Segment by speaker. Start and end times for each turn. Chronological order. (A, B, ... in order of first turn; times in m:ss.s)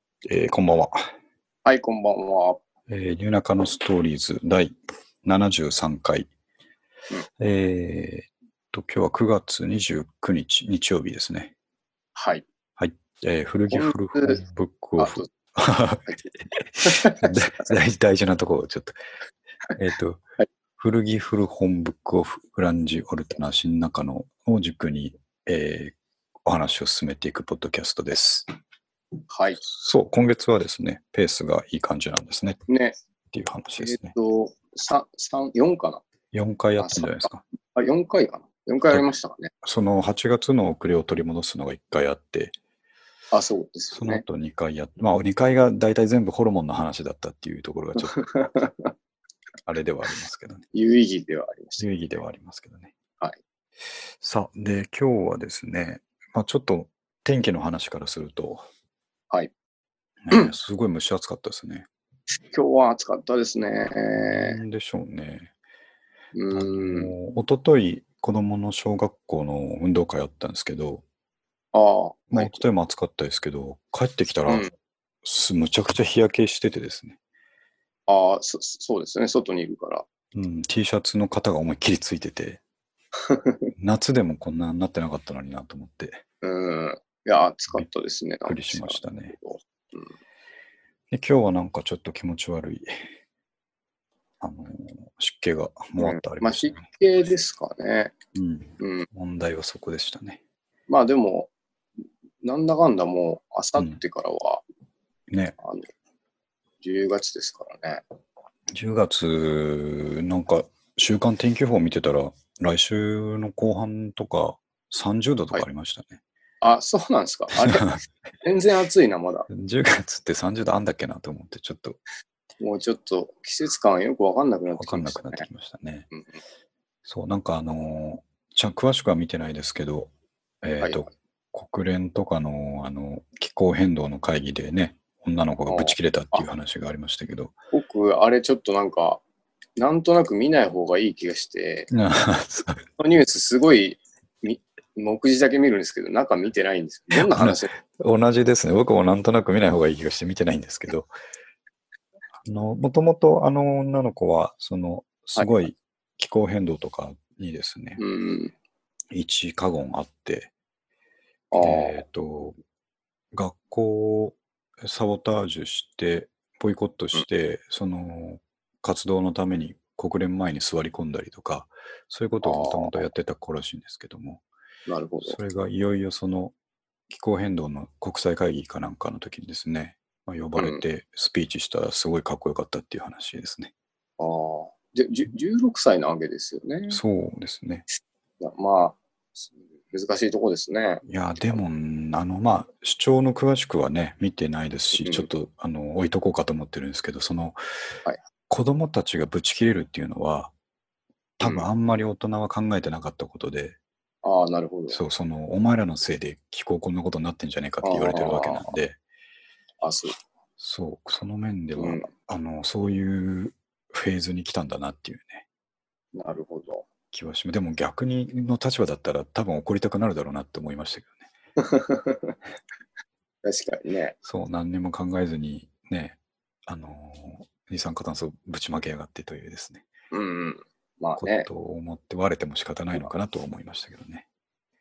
0:00.2-0:01.0 A
0:01.6-0:02.6 B
0:02.9-0:06.3 A
0:07.4-0:11.5 A
0:12.2-0:12.4 B
0:12.8-0:19.0 A
0:13.7-0:14.4 B
0:15.0-0:15.3 B
0:16.8-0:17.4 B
0:19.8-0:20.2 A
0:20.8-0:25.9 A
0:26.4-0:28.5 A
0:29.3-0:29.6 B
0:29.6-0:32.6 A
0:32.7-0:33.0 B
0:33.3-0:34.2 A
0:33.8-0:36.0 B
0:36.3-0:37.4 A
0:36.8-0:39.5 B
0:39.6-0:42.5 A
0:43.3-0:44.2 B
0:43.9-0:48.5 A
0:48.1-0:48.9 B
0:49.7-0:50.6 A
0:50.7-0:51.9 B
0:51.8-0:52.9 A
0:54.2-0:58.7 A
1:00.2-1:01.9 A
1:02.5-1:04.6 B
1:04.3-1:05.5 A
1:06.4-1:07.2 B
1:06.5-1:11.0 A
1:11.7-1:12.6 B
1:12.3-1:14.7 A
1:14.5-1:14.7 B
1:15.2-1:17.2 A
1:18.1-1:20.0 B
1:20.3-1:22.6 A
1:23.3-1:23.7 B
1:23.8-1:26.2 A
1:26.4-1:30.1 B
1:28.5-1:29.4 A
1:31.1-1:33.1 A
1:34.4-1:36.8 A
1:36.0-1:38.1 B
1:38.3-1:40.4 A
1:38.8-1:39.1 B
1:40.9-1:41.5 B
1:42.4-1:44.6 B
1:45.3-1:45.6 A
1:45.6-1:45.9 B
1:46.8-1:48.0 B
1:48.7-1:56.2 A
1:56.6-1:57.9 B
1:57.6-1:58.0 A
1:58.4-1:59.5 B
1:59.5-2:02.0 A
2:02.6-2:05.5 B
2:04.8-2:06.1 A
2:06.1-2:06.4 B
2:07.1-2:10.1 A
2:10.6-2:17.6 A
2:15.7-2:16.5 B
2:17.7-2:19.2 B
2:19.8-2:21.9 B
2:21.9-2:22.8 A
2:23.0-2:27.7 B
2:27.1-2:31.1 A
2:32.4-2:38.0 A
2:38.0-2:38.6 B
2:39.1-2:40.5 A
2:41.5-2:42.0 B
2:41.6-2:42.6 A
2:43.3-2:54.4 A
2:52.4-2:53.1 B
2:54.9-2:55.4 B
2:55.2-2:56.5 A
2:57.1-3:03.7 A
3:00.6-3:00.8 B
3:04.2-3:07.0 B
3:06.9-3:07.8 A
3:08.4-3:11.0 B
3:11.1-3:17.6 A
3:15.0-3:15.3 B
3:18.5-3:20.5 A
3:21.4-3:23.8 A
3:21.4-3:21.7 B
3:24.2-3:25.0 B
3:24.9-3:29.0 A
3:27.8-3:28.7 B
3:29.8-3:30.2 B
3:30.6-3:35.4 A
3:31.8-3:32.1 B
3:36.2-3:36.9 B
3:37.1-3:41.3 A
3:41.6-3:42.4 B
3:43.4-3:44.2 B
3:44.2-3:49.9 A
3:50.1-3:51.5 B
3:51.2-3:54.3 A